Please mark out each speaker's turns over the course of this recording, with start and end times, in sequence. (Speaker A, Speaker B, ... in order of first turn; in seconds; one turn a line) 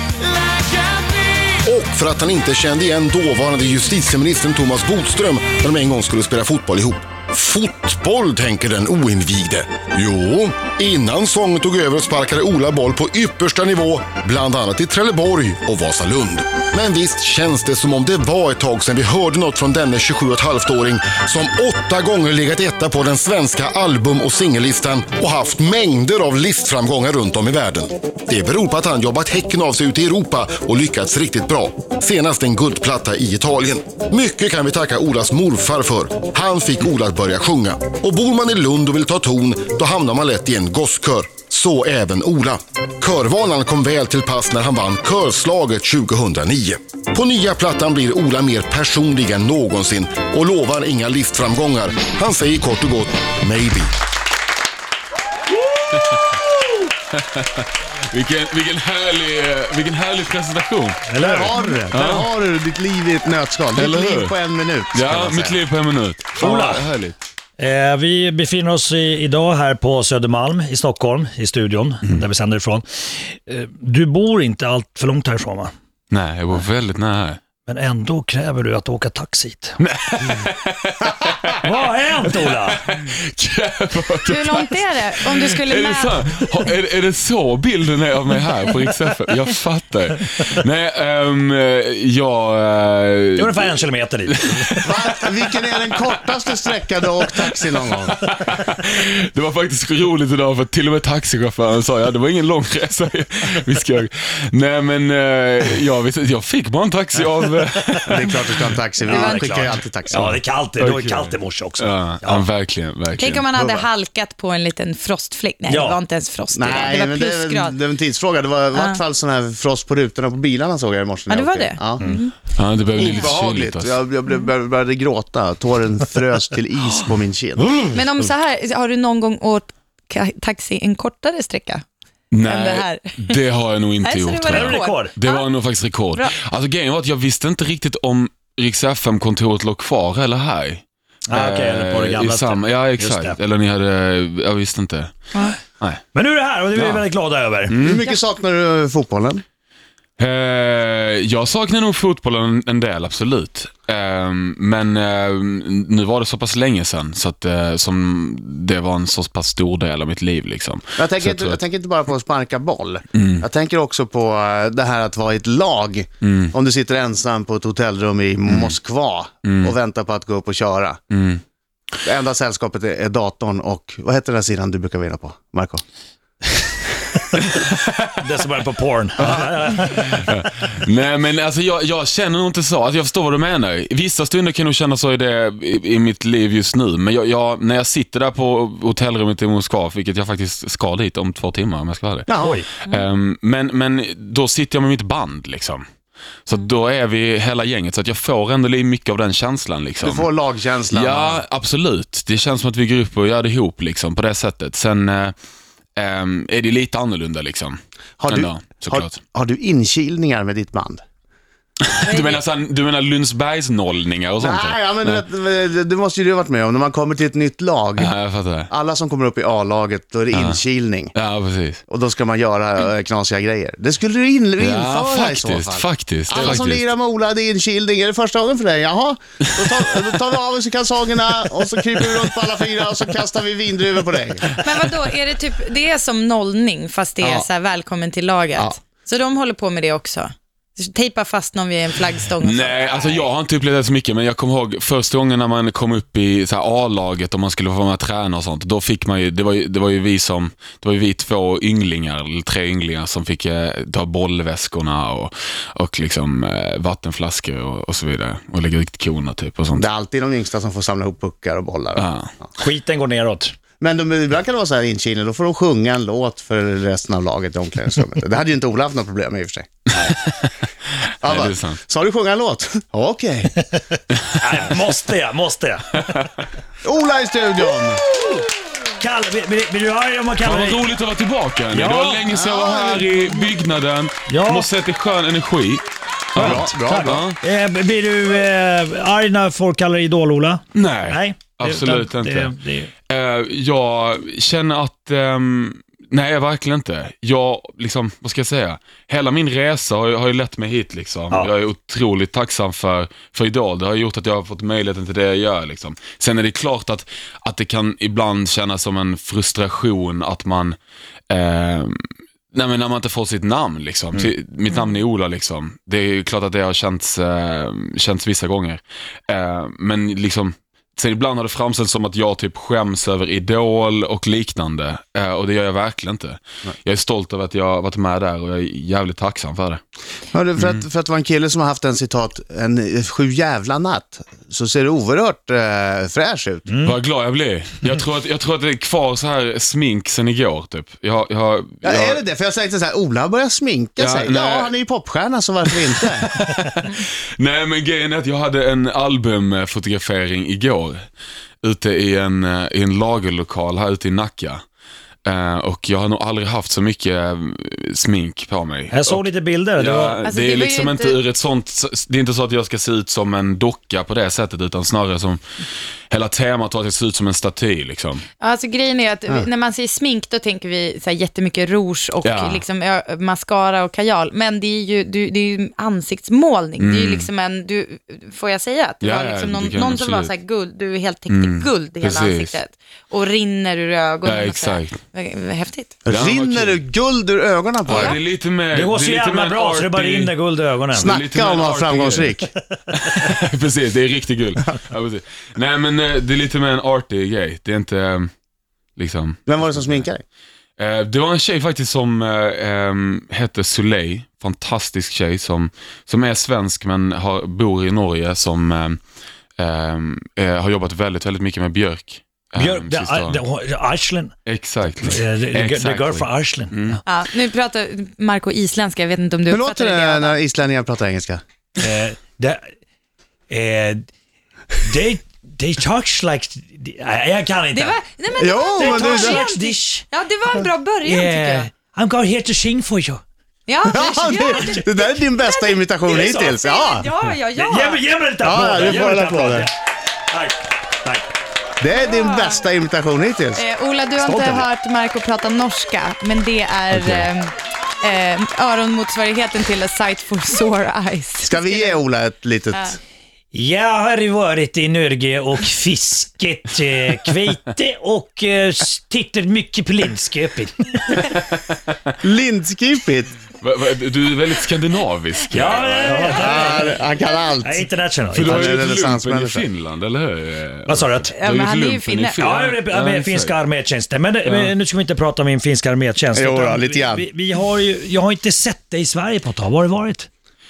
Speaker A: 0.8-53.9
Speaker B: 55.9-56.4
Speaker B: 57.1-62.3
Speaker C: 61.1-61.9
Speaker D: 61.2-65.6
Speaker B: 63.7-64.3
Speaker B: 64.9-67.2
Speaker C: 66.3-66.9
Speaker C: 67.6-75.7
Speaker B: 76.1-77.4
Speaker C: 77.7-79.8
Speaker B: 79.8-95.0
Speaker C: 81.5-82.8
Speaker E: 84.2-86.2
Speaker C: 93.4-94.8
Speaker D: 94.8-98.2
Speaker B: 98.0-108.6
Speaker C: 107.8-108.2
Speaker D: 108.1-110.4
Speaker E: 109.0-109.7
Speaker C: 109.1-112.4
Speaker B: 110.8-113.4
Speaker E: 113.2-117.8
Speaker D: 113.5-113.8
Speaker C: 115.7-116.0
Speaker D: 116.5-122.0
Speaker E: 118.7-119.0
Speaker E: 121.3-122.3
Speaker B: 122.5-124.0
Speaker D: 122.9-127.7
Speaker B: 127.6-128.0
Speaker E: 127.9-131.8
Speaker B: 132.3-145.1
Speaker E: 132.4-133.4
Speaker E: 134.0-135.4
Speaker C: 134.5-135.1
Speaker C: 141.3-143.4
Speaker C: 145.3-145.6
Speaker C: 146.1-147.8
Speaker B: 146.7-147.0
Speaker B: 147.7-148.0
Speaker D: 147.8-149.4
Speaker B: 150.2-161.6
Speaker D: 161.0-171.0
Speaker B: 163.1-163.4
Speaker B: 166.2-166.5
Speaker B: 168.5-168.7
Speaker B: 169.4-169.7
Speaker B: 171.1-171.4
Speaker D: 172.0-175.8
Speaker B: 177.3-178.1
Speaker C: 178.2-180.3
Speaker B: 179.2-192.3
Speaker D: 192.3-192.6
Speaker C: 192.4-192.7
Speaker B: 192.8-195.8
Speaker B: 196.4-200.3
Speaker D: 200.0-201.4
Speaker B: 200.9-205.3
Speaker B: 205.9-209.2
Speaker D: 208.2-211.0
Speaker B: 211.8-215.2
Speaker E: 212.0-212.4
Speaker D: 214.4-218.1
Speaker B: 218.0-218.7
Speaker D: 218.7-221.1
Speaker B: 220.3-220.6
Speaker B: 221.1-221.8
Speaker D: 221.9-234.5
Speaker B: 224.6-226.9
Speaker E: 234.6-243.2
Speaker B: 242.4-259.9
Speaker D: 259.7-262.1
Speaker B: 261.9-262.3
Speaker C: 262.6-263.5
Speaker D: 263.8-269.7
Speaker B: 269.9-271.8
Speaker D: 271.2-273.5
Speaker B: 274.1-274.5
Speaker C: 274.4-276.1
Speaker B: 276.0-276.3
Speaker D: 276.8-278.0
Speaker C: 277.8-280.8
Speaker B: 280.4-287.4
Speaker D: 281.7-283.2
Speaker C: 284.3-284.7
Speaker D: 286.4-287.2
Speaker C: 286.4-292.9
Speaker B: 290.7-292.5
Speaker B: 293.1-310.8
Speaker B: 311.3-329.8
Speaker E: 314.7-314.9
Speaker D: 330.3-336.7
Speaker B: 330.6-330.8
Speaker C: 336.7-336.9
Speaker B: 336.8-342.2
Speaker D: 341.8-346.3
Speaker B: 344.0-344.7
Speaker B: 346.2-351.0
Speaker B: 351.6-354.6
Speaker B: 355.2-359.2
Speaker C: 358.9-360.2
Speaker B: 359.8-365.4
Speaker E: 360.2-361.2
Speaker B: 366.1-368.2
Speaker E: 368.4-386.0
Speaker B: 372.2-372.6
Speaker B: 376.8-377.3
Speaker B: 379.0-380.3
Speaker B: 381.3-382.6
Speaker B: 384.2-385.0
Speaker D: 386.1-388.2
Speaker B: 386.1-386.8
Speaker B: 387.9-390.3
Speaker C: 388.7-391.1
Speaker B: 390.9-392.4
Speaker D: 391.0-392.5
Speaker B: 392.9-398.3
Speaker B: 399.0-400.1
Speaker D: 399.5-400.2
Speaker B: 400.8-409.0
Speaker B: 409.6-413.4
Speaker C: 412.6-414.3
Speaker B: 414.4-417.0
Speaker C: 415.0-417.0
Speaker E: 417.1-420.4
Speaker D: 419.5-421.4
Speaker C: 421.8-422.6
Speaker C: 423.5-424.1
Speaker C: 424.7-428.0
Speaker E: 427.7-431.7
Speaker D: 428.4-429.4
Speaker C: 428.8-430.0
Speaker C: 431.0-433.2
Speaker E: 433.7-438.1
Speaker D: 433.9-437.1
Speaker C: 434.4-434.7
Speaker C: 436.1-436.5
Speaker C: 437.5-439.7
Speaker D: 438.4-439.7
Speaker C: 440.3-441.3
Speaker D: 441.8-443.6
Speaker E: 441.9-442.6
Speaker E: 443.5-452.0
Speaker C: 444.2-444.7
Speaker B: 446.9-447.3
Speaker D: 451.4-453.0
Speaker C: 453.5-461.3
Speaker D: 462.2-463.3
Speaker B: 463.6-466.8
Speaker C: 465.5-467.0
Speaker D: 466.3-467.9
Speaker C: 467.6-468.7
Speaker B: 468.3-473.6
Speaker D: 468.4-469.6
Speaker C: 470.9-471.3
Speaker E: 471.3-472.4
Speaker C: 472.4-480.3
Speaker B: 474.4-474.7
Speaker D: 476.3-477.2